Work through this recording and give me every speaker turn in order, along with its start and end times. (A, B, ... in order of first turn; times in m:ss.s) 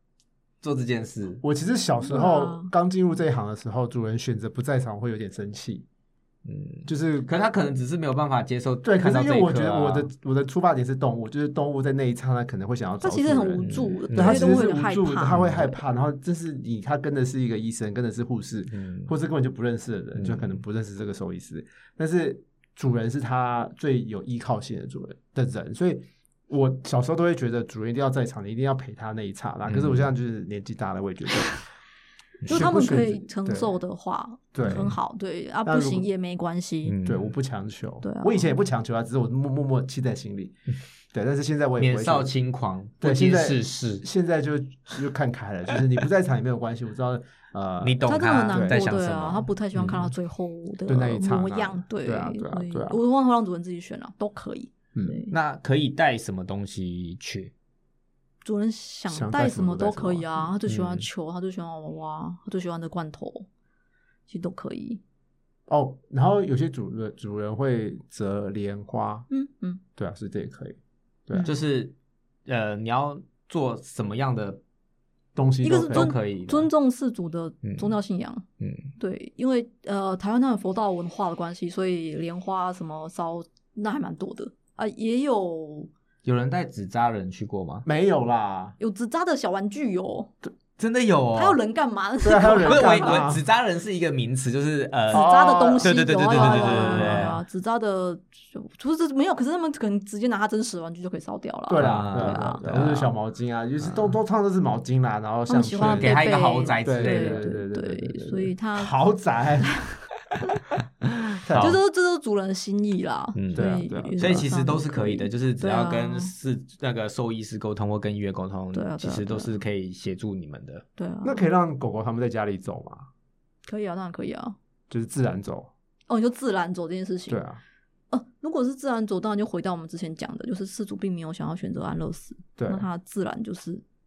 0:00.6-0:01.4 A
0:01.4-0:05.8 B
0:02.0-0:02.7 C
0:06.4-0:10.1 A
0:06.9-0:07.3 B
0:08.8-0:31.6 B
0:13.0-0:15.8 C
0:13.6-0:14.6 A
0:18.7-0:19.1 A
0:20.2-0:20.6 A
0:29.7-0:30.1 A
0:32.5-0:33.7 B
0:32.5-0:37.0 C
0:34.6-0:34.9 B
0:34.6-0:34.9 A
0:35.7-0:36.1 B
0:36.9-0:37.3 A
0:37.0-0:40.6 B
0:38.0-0:38.5 C
0:41.1-0:42.3 B
0:41.8-0:44.0 A
0:43.0-0:48.8 B
0:47.8-0:50.1 A
0:48.1-0:55.3 C
0:50.9-0:53.0 B
0:55.3-0:57.5 A
0:58.4-1:03.5 C
0:59.1-1:00.5 B
1:00.7-1:01.1 A
1:04.3-1:05.0 C
1:05.7-1:09.3 B
1:09.3-1:09.8 C
1:10.0-1:11.5 B
1:11.4-1:12.0 A
1:12.5-1:14.6 A
1:15.4-1:16.1 B
1:15.6-1:18.4 C
1:15.9-1:16.7 A
1:17.6-1:17.9 A
1:18.6-1:18.9 A
1:19.0-1:25.9 C
1:26.2-1:27.9 A
1:27.8-1:28.8 B
1:28.8-1:30.3 C
1:30.8-1:31.6 A
1:31.4-1:33.3 C
1:32.2-1:33.4 B
1:32.6-1:37.4 A
1:35.1-1:42.8 C
1:35.1-1:37.4 B
1:41.7-1:46.3 B
1:41.8-1:43.1 A
1:43.8-1:44.1 A
1:45.5-1:49.0 C
1:45.8-1:47.4 A
1:46.8-1:49.8 B
1:49.6-1:50.6 C
1:51.0-1:51.8 A
1:51.4-1:51.8 B
1:51.6-1:56.3 C
1:53.4-2:00.8 A
1:53.6-1:54.5 B
1:58.7-1:59.6 C
2:01.0-2:01.4 C
2:01.2-2:03.1 B
2:03.7-2:04.6 C
2:04.9-2:05.7 B
2:06.1-2:07.4 C
2:07.3-2:07.6 B
2:08.1-2:13.8 C
2:12.6-2:12.9 B